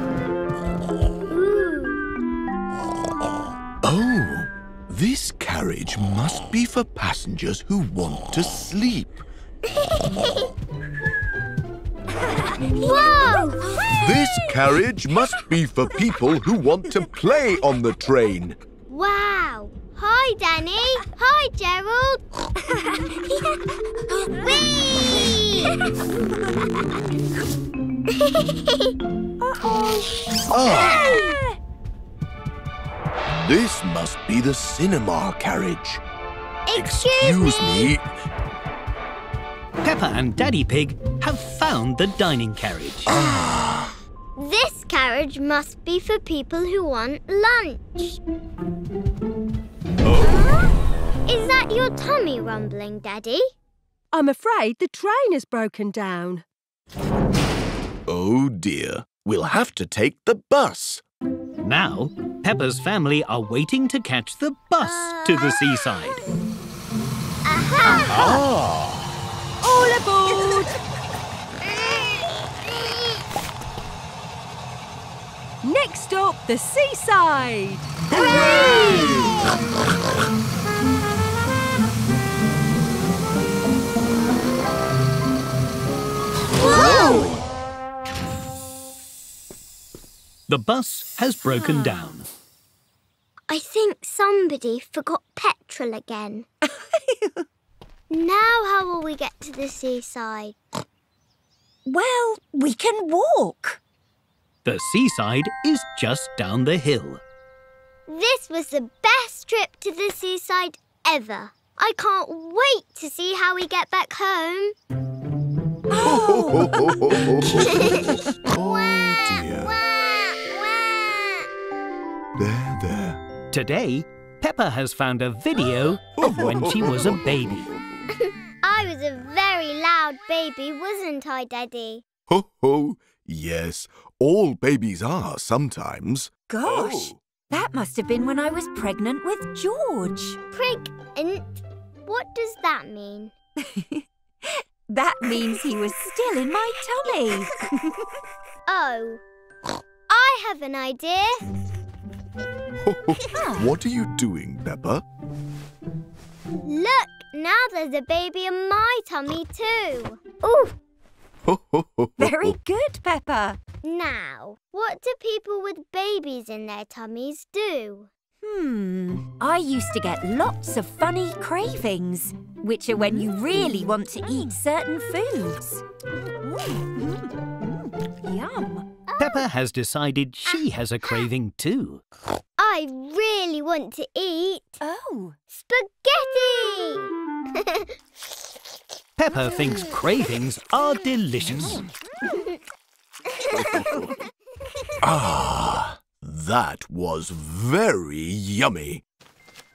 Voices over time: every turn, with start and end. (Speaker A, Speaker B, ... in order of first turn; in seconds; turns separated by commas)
Speaker A: 1.3-2.0, Speaker B: 3.8-9.2, Speaker A: 12.7-13.8, Speaker B: 13.9-18.6, Speaker A: 18.9-22.2, Speaker A: 24.3-25.9, Speaker A: 30.3-31.1, Speaker B: 30.5-31.2, Speaker B: 33.3-36.0, Speaker A: 36.6-37.9, Speaker B: 36.7-38.0, Speaker C: 39.8-43.1, Speaker B: 43.1-43.9, Speaker A: 44.4-48.2, Speaker B: 50.0-50.5, Speaker A: 51.3-53.5, Speaker D: 54.1-56.4, Speaker B: 58.1-61.0, Speaker C: 61.6-66.2, Speaker A: 64.8-65.3, Speaker A: 67.5-68.4, Speaker D: 67.8-68.2, Speaker B: 68.0-69.1, Speaker D: 69.6-70.8, Speaker A: 71.7-72.3, Speaker D: 75.6-77.9, Speaker B: 78.1-79.4, Speaker A: 78.1-79.4, Speaker A: 86.6-87.3, Speaker B: 86.6-87.4, Speaker C: 90.5-92.3, Speaker A: 93.5-96.5, Speaker E: 96.9-97.4, Speaker A: 98.1-100.6, Speaker E: 101.8-103.8, Speaker C: 104.6-107.2, Speaker A: 108.1-114.8, Speaker E: 115.9-117.5, Speaker B: 116.0-119.7, Speaker A: 117.5-121.5, Speaker B: 122.4-123.2, Speaker C: 123.5-127.7, Speaker B: 126.2-127.7, Speaker A: 128.2-132.0, Speaker B: 132.3-137.2, Speaker E: 136.5-140.4, Speaker A: 140.5-143.3, Speaker E: 143.6-148.1, Speaker A: 148.7-149.2, Speaker A: 150.1-151.4, Speaker B: 152.8-155.0, Speaker E: 153.3-153.7, Speaker A: 156.6-160.8, Speaker B: 161.4-162.5, Speaker E: 162.2-163.6, Speaker A: 163.8-168.1, Speaker E: 168.4-175.8, Speaker E: 176.4-178.9, Speaker A: 179.1-179.4, Speaker C: 179.2-182.0, Speaker A: 182.6-184.8, Speaker E: 184.8-185.4, Speaker A: 185.5-187.9, Speaker C: 189.2-191.9, Speaker B: 193.5-194.1, Speaker B: 195.0-199.0